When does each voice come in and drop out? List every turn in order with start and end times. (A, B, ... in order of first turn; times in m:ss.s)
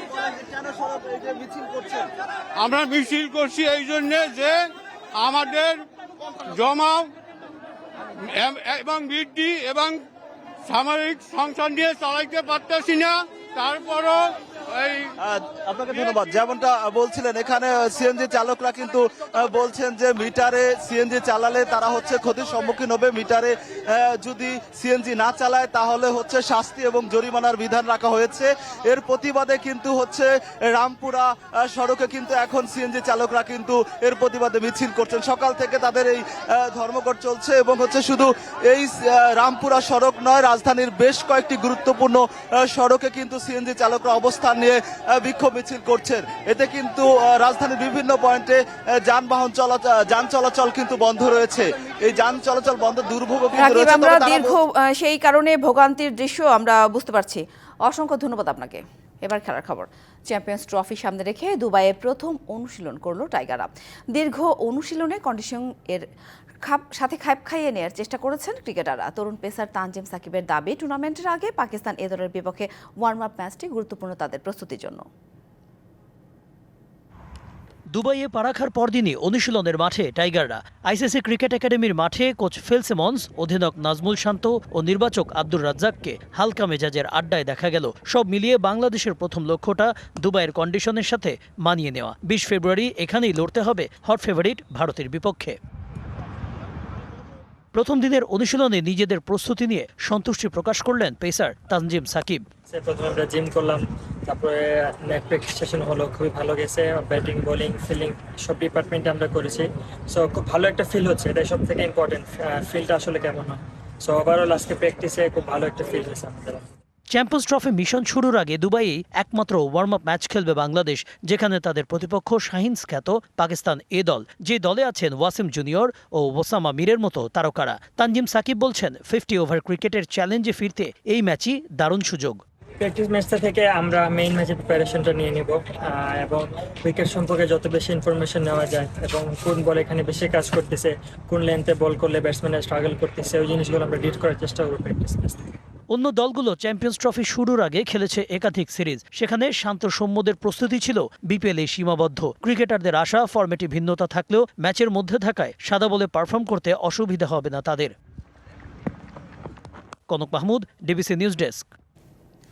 0:02.6-0:04.6 A
0:05.2-0:05.8 A
0:06.5-0:07.1 A
0:08.2-0:10.0 A
0:10.7-0:15.1 A
0:15.2-0:54.5 B
0:53.6-1:06.1 C
1:06.6-1:15.0 C
1:17.9-1:35.6 D
1:37.7-1:42.4 D
1:42.7-1:56.6 E
1:57.1-2:12.4 D
2:12.8-2:25.5 E
2:25.9-2:37.9 D
2:40.1-2:41.7 D